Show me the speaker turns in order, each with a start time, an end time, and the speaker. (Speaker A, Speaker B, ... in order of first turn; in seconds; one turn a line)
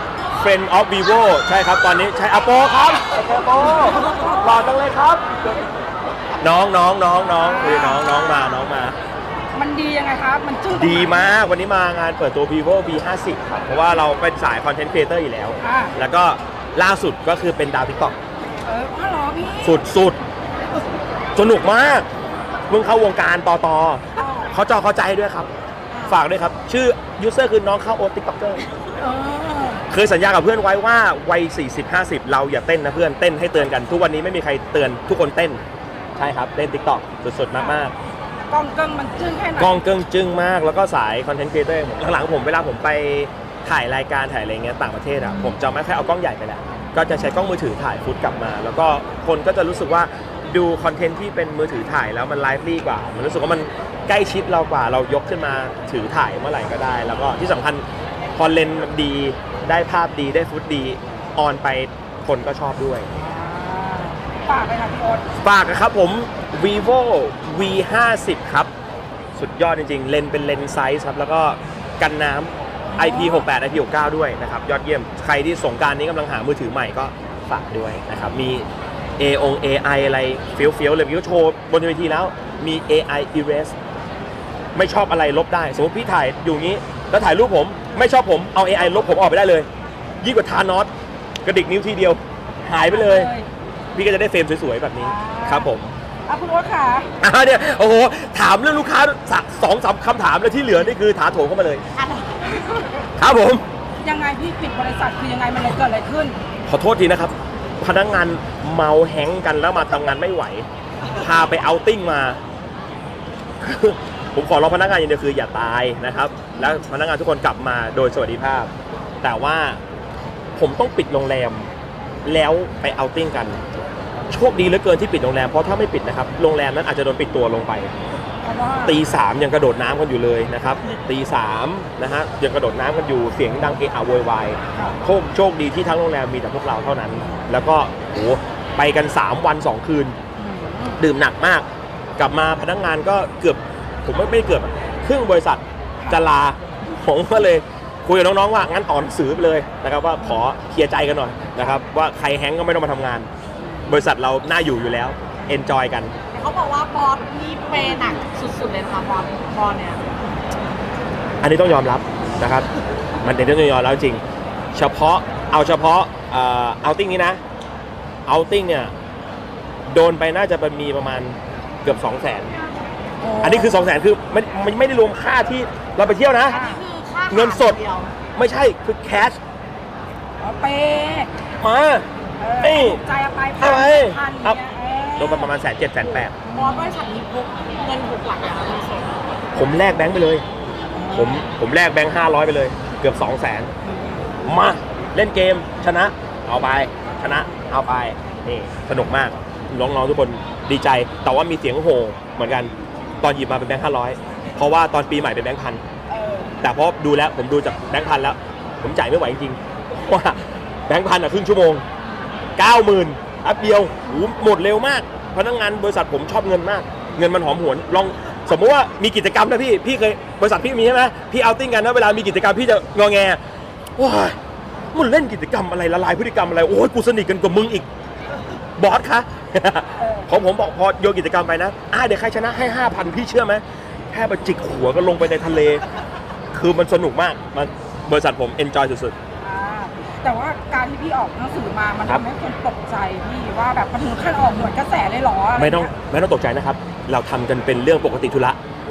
Speaker A: 0.3-5.5
Speaker B: 3.9-4.5
Speaker A: 6.4-9.0
Speaker B: 7.3-8.7
Speaker B: 9.6-11.3
Speaker A: 10.7-18.2
Speaker B: 15.6-15.9
Speaker B: 18.6-19.8
Speaker A: 19.6-20.2
Speaker A: 21.4-22.1
Speaker A: 22.7-25.5
Speaker B: 24.2-24.5
Speaker C: 25.9-26.2
Speaker A: 26.1-28.6
Speaker B: 29.0-29.8
Speaker A: 29.9-35.6
Speaker A: 36.2-37.9
Speaker B: 37.6-37.8
Speaker B: 38.5-39.8
Speaker A: 39.6-57.9
Speaker A: 58.4-63.1
Speaker B: 63.1-65.2
Speaker A: 65.4-68.7
Speaker A: 69.4-78.7
Speaker B: 72.9-73.5
Speaker A: 79.2-83.8
Speaker A: 84.8-89.7
Speaker A: 90.2-90.9
Speaker A: 91.4-93.3
Speaker B: 92.9-93.5
Speaker A: 94.0-95.9
Speaker B: 95.0-95.7
Speaker B: 96.3-97.1
Speaker A: 97.2-101.8
Speaker C: 101.9-102.5
Speaker A: 103.2-103.6
Speaker B: 104.0-106.4
Speaker A: 106.7-110.7
Speaker A: 111.2-112.4
Speaker A: 113.6-118.7
Speaker A: 119.2-119.8
Speaker A: 120.6-121.7
Speaker A: 122.3-123.6
Speaker A: 124.3-127.9
Speaker B: 128.4-129.0
Speaker A: 128.8-140.2
Speaker B: 137.2-137.5
Speaker B: 140.4-141.0
Speaker A: 141.0-141.7
Speaker A: 142.2-153.3
Speaker B: 150.2-150.5
Speaker B: 153.8-154.0
Speaker A: 153.9-156.2
Speaker C: 156.3-160.1
Speaker A: 161.4-162.7
Speaker A: 163.2-164.2
Speaker A: 164.7-167.4
Speaker A: 168.3-168.9
Speaker A: 169.9-172.5
Speaker B: 173.2-173.9
Speaker A: 173.4-176.6
Speaker B: 176.5-176.8
Speaker C: 176.5-178.1
Speaker A: 177.3-177.8
Speaker A: 178.3-179.4
Speaker B: 180.4-181.3
Speaker A: 181.6-182.1
Speaker B: 182.4-185.5
Speaker A: 182.6-183.0
Speaker A: 183.6-184.6
Speaker A: 185.2-186.3
Speaker B: 186.4-187.0
Speaker C: 186.5-189.2
Speaker A: 189.6-190.4
Speaker B: 190.9-191.5
Speaker A: 191.1-193.7
Speaker B: 193.8-194.3
Speaker A: 194.4-205.8
Speaker B: 197.1-197.6
Speaker B: 206.1-206.6
Speaker A: 206.6-211.8
Speaker A: 212.6-223.4
Speaker A: 224.0-224.4
Speaker A: 224.9-227.9
Speaker A: 228.8-235.8
Speaker B: 230.0-230.3
Speaker A: 236.5-239.2
Speaker B: 239.4-245.9
Speaker A: 245.6-248.6